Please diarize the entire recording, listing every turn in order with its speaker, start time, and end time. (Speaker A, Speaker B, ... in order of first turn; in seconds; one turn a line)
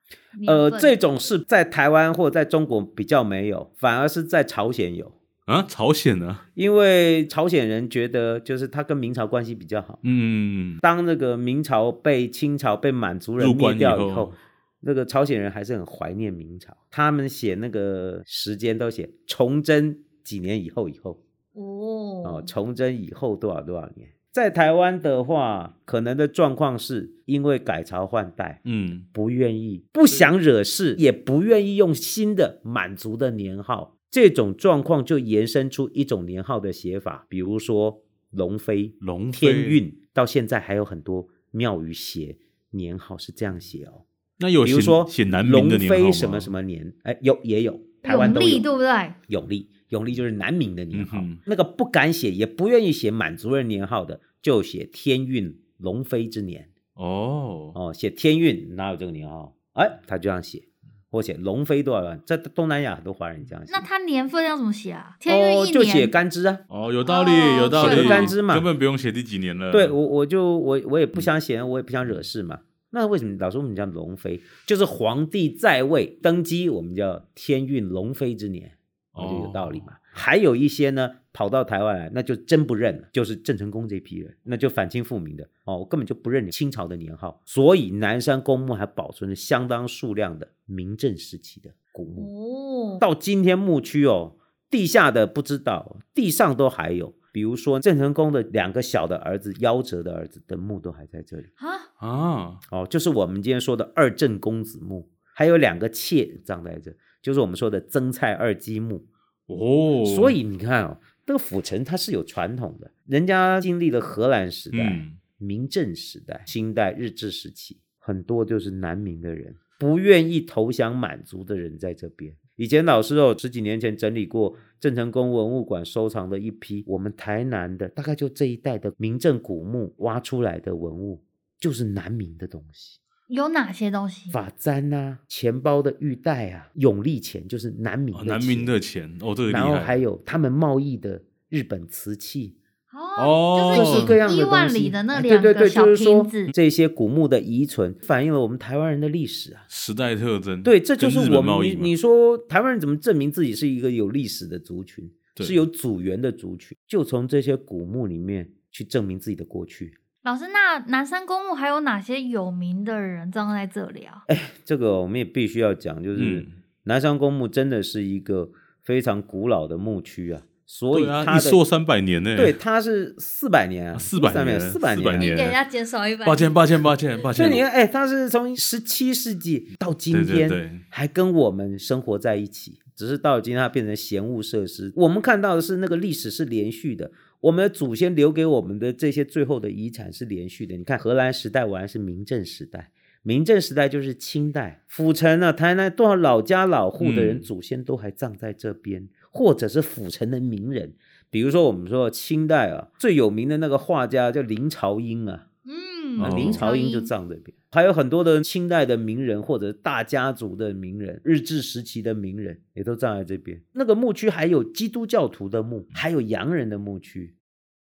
Speaker A: 0.4-1.0
Speaker B: 0.5-5.2
Speaker C: 5.5-6.4
Speaker B: 6.6-10.0
Speaker C: 10.0-10.8
Speaker B: 10.8-21.2
Speaker C: 13.4-14.4
Speaker A: 21.6-22.5
Speaker B: 22.2-28.6
Speaker C: 28.6-29.1
Speaker B: 29.1-44.0
Speaker C: 39.0-39.8
Speaker C: 44.4-46.5
Speaker B: 44.6-48.6
Speaker A: 48.0-49.2
Speaker B: 49.3-56.7
Speaker C: 50.9-51.4
Speaker C: 57.0-57.8
Speaker B: 57.8-63.9
Speaker A: 63.7-66.1
Speaker B: 65.3-66.6
Speaker C: 66.7-70.0
Speaker A: 67.1-68.3
Speaker B: 67.7-68.7
Speaker B: 69.7-92.3
Speaker C: 79.2-79.9
Speaker A: 92.2-93.0
Speaker B: 93.0-101.5
Speaker A: 101.6-101.9
Speaker C: 102.0-102.6
Speaker B: 102.7-109.1
Speaker C: 109.5-110.4
Speaker B: 110.0-133.0
Speaker C: 114.7-115.2
Speaker A: 133.3-134.4
Speaker B: 134.3-138.7
Speaker C: 138.1-140.0
Speaker B: 139.5-142.6
Speaker A: 142.9-146.5
Speaker C: 143.2-144.2
Speaker B: 143.7-149.7
Speaker C: 149.7-151.9
Speaker B: 150.6-160.0
Speaker A: 160.2-164.2
Speaker B: 164.3-171.6
Speaker C: 166.2-166.5
Speaker C: 170.9-172.6
Speaker B: 172.4-175.4
Speaker C: 173.9-175.6
Speaker A: 175.2-176.6
Speaker C: 176.2-177.6
Speaker B: 177.3-205.4
Speaker C: 180.1-180.8
Speaker C: 197.0-197.5
Speaker A: 205.7-207.1
Speaker B: 206.2-217.4
Speaker C: 206.2-206.7